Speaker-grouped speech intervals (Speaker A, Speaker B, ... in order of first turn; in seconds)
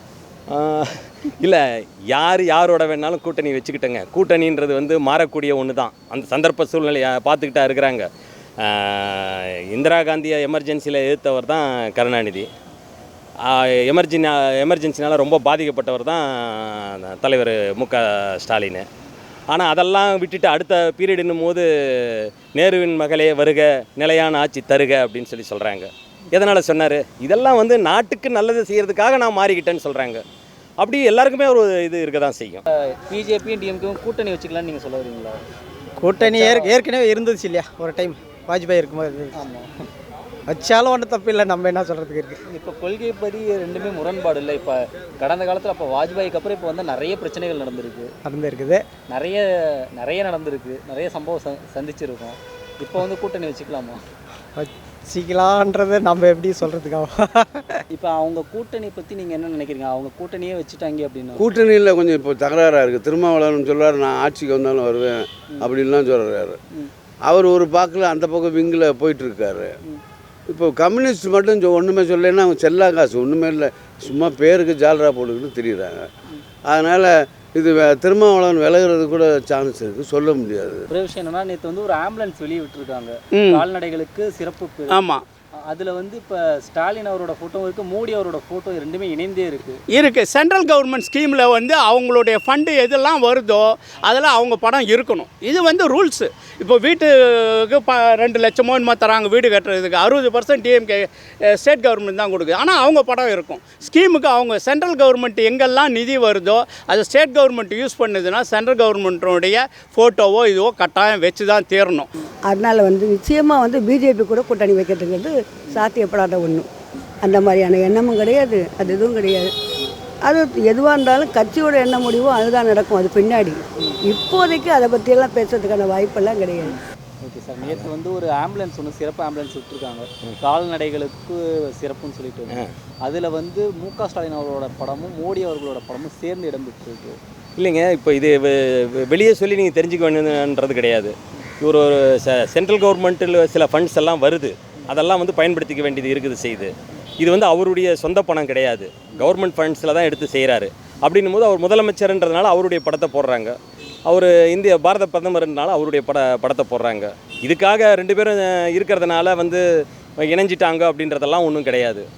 Speaker A: 0.5-1.6, 2.1-8.1, 8.6-12.5, 13.5-18.9, 19.5-30.2, 30.8-32.6, 137.6-153.6, 154.1-159.6, 160.2-162.1
Speaker B: 33.0-35.4, 36.1-36.8, 39.4-39.7, 42.5-48.1, 49.1-49.5, 50.0-54.0, 57.9-61.5, 80.9-85.0, 85.7-89.8, 126.6-137.2
Speaker C: 36.0-39.4, 40.5-42.4, 48.2-48.9, 54.6-57.8
Speaker D: 61.4-66.6, 67.3-69.7, 70.5-76.1, 76.7-80.9
Speaker E: 83.3-83.6, 84.9-85.2, 89.9-112.1
Speaker F: 112.5-116.7, 117.2-119.5, 120.2-126.8